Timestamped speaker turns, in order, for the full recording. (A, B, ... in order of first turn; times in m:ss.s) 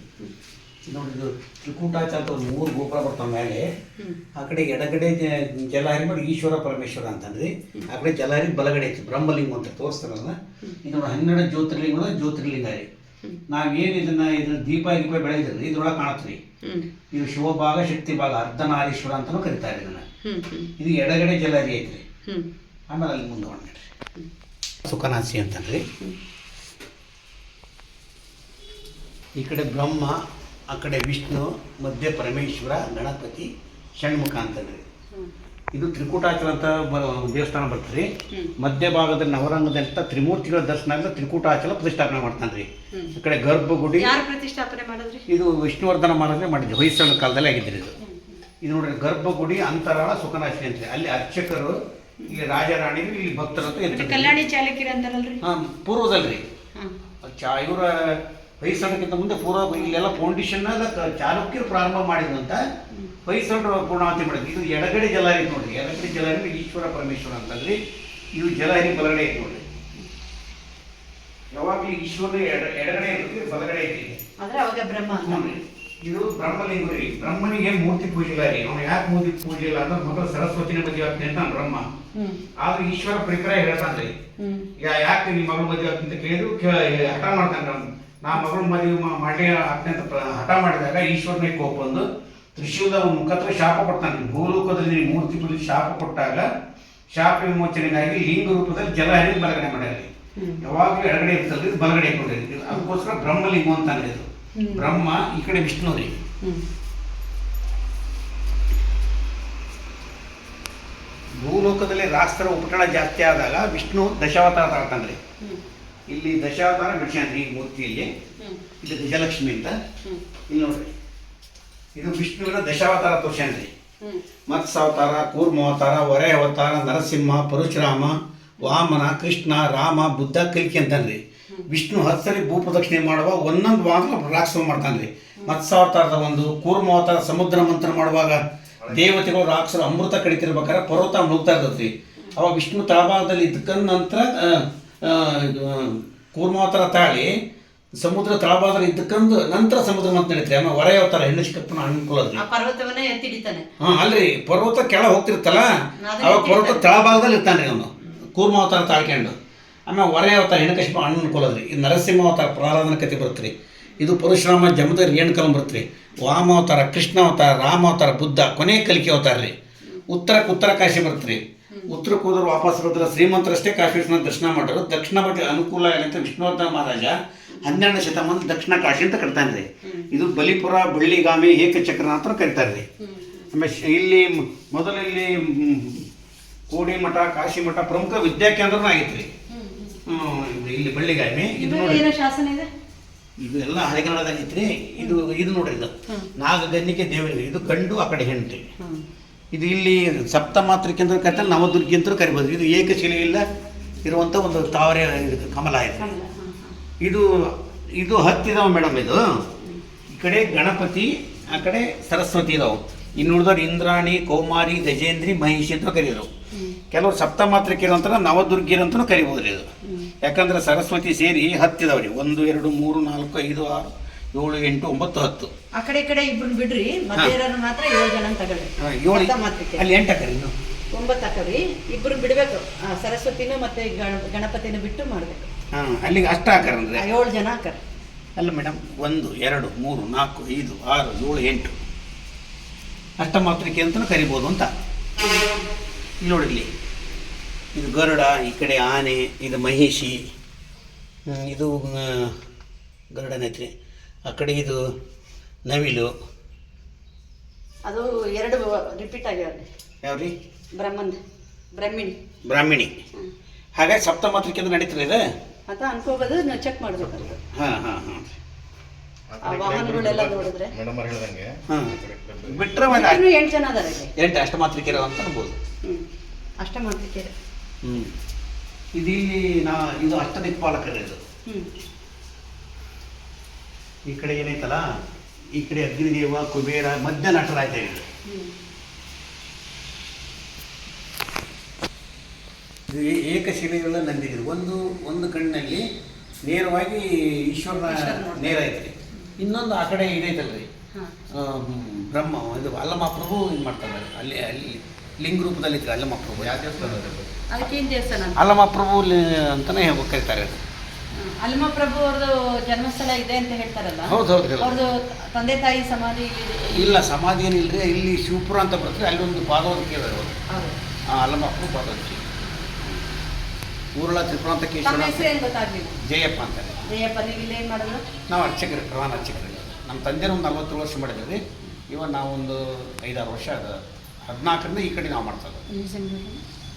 0:00.9-0:03.7 A
0:04.4-0:12.9 A
0:13.5-0:16.4 A
0:16.6-0:16.9 B
0:17.1-0:20.1 A
0:20.2-0:20.7 B
0:20.8-0:22.0 A
0:22.3-0:22.5 B
0:22.9-0:23.9 A
0:24.9-0:25.8 A
0:29.4-0:34.8 A
0:35.7-0:44.1 A
0:44.0-0:45.3 B
0:45.3-0:47.9 A
0:48.0-0:48.4 B
0:48.6-0:54.4 A
0:53.9-0:55.4 B
0:55.4-0:56.5 A
0:57.2-1:02.6 A
1:03.3-1:07.8 A
1:08.4-1:09.6 A
1:11.5-1:14.2 A
1:14.4-1:15.5 B
1:15.2-1:21.9 A
1:22.2-1:22.4 B
1:22.6-1:24.2 A
1:24.4-1:24.7 B
1:24.8-1:36.5 A
1:37.1-1:46.2 A
1:40.4-1:40.6 B
1:44.6-1:44.9 B
1:51.4-1:55.2 A
1:56.1-1:58.1 A
1:58.8-1:59.8 A
2:00.5-2:00.9 A
2:02.0-2:03.7 A
2:04.5-2:27.3 A
2:28.0-2:32.4 A
2:32.4-2:33.7 B
2:33.8-2:39.3 A
2:36.0-2:37.2 B
2:39.9-2:49.5 A
2:50.1-3:02.8 A
3:03.0-3:03.5 B
3:03.5-3:06.1 A
3:06.7-3:09.3 A
3:09.5-3:10.0 B
3:10.0-3:12.0 A
3:11.5-3:12.7 B
3:13.4-3:18.7 A
3:18.8-3:19.1 B
3:19.5-3:23.4 A
3:24.0-3:26.1 A
3:26.0-3:26.8 B
3:27.0-3:29.5 A
3:30.1-3:36.3 A
3:36.5-3:36.8 B
3:36.9-3:39.7 A
3:39.8-3:40.1 B
3:40.2-3:45.5 A
3:45.7-3:49.9 B
3:48.8-3:50.5 A
3:50.9-3:55.5 B
3:55.7-3:57.1 A
3:56.9-3:57.8 B
3:58.4-4:01.8 A
4:03.2-4:04.7 A
4:05.2-4:05.6 B
4:06.2-4:06.7 A
4:07.7-4:10.2 A
4:11.3-4:12.4 A
4:13.1-4:13.7 A
4:14.3-4:14.8 A
4:15.7-4:16.1 A
4:17.8-4:19.7 B
4:20.0-4:20.3 A
4:20.7-4:21.2 B
4:21.7-4:22.2 B
4:22.5-4:23.0 A
4:23.8-4:25.2 A
4:25.7-4:27.4 B
4:27.5-4:28.4 A
4:29.3-4:32.8 C
4:29.4-4:30.7 B
4:31.7-4:33.2 A
4:32.9-4:34.1 B
4:34.2-4:35.6 A
4:36.6-4:37.3 B
4:37.8-4:38.1 A
4:39.0-4:41.2 A
4:44.1-4:44.8 A
4:45.5-4:48.0 A
4:48.3-4:48.6 B
4:52.9-4:55.8 A
4:56.4-5:00.7 A
4:57.8-4:58.6 B
5:01.3-5:06.7 A
5:06.4-5:07.3 C
5:06.8-5:08.4 B
5:08.3-5:10.6 A
5:11.1-5:17.1 B
5:14.0-5:14.8 A
5:16.7-5:20.4 A
5:20.5-5:20.8 B
5:21.1-5:22.2 A
5:24.0-5:25.3 A
5:24.8-5:26.0 B
5:26.0-5:26.8 A
5:26.9-5:28.1 B
5:28.3-5:35.7 A
5:35.7-5:36.4 B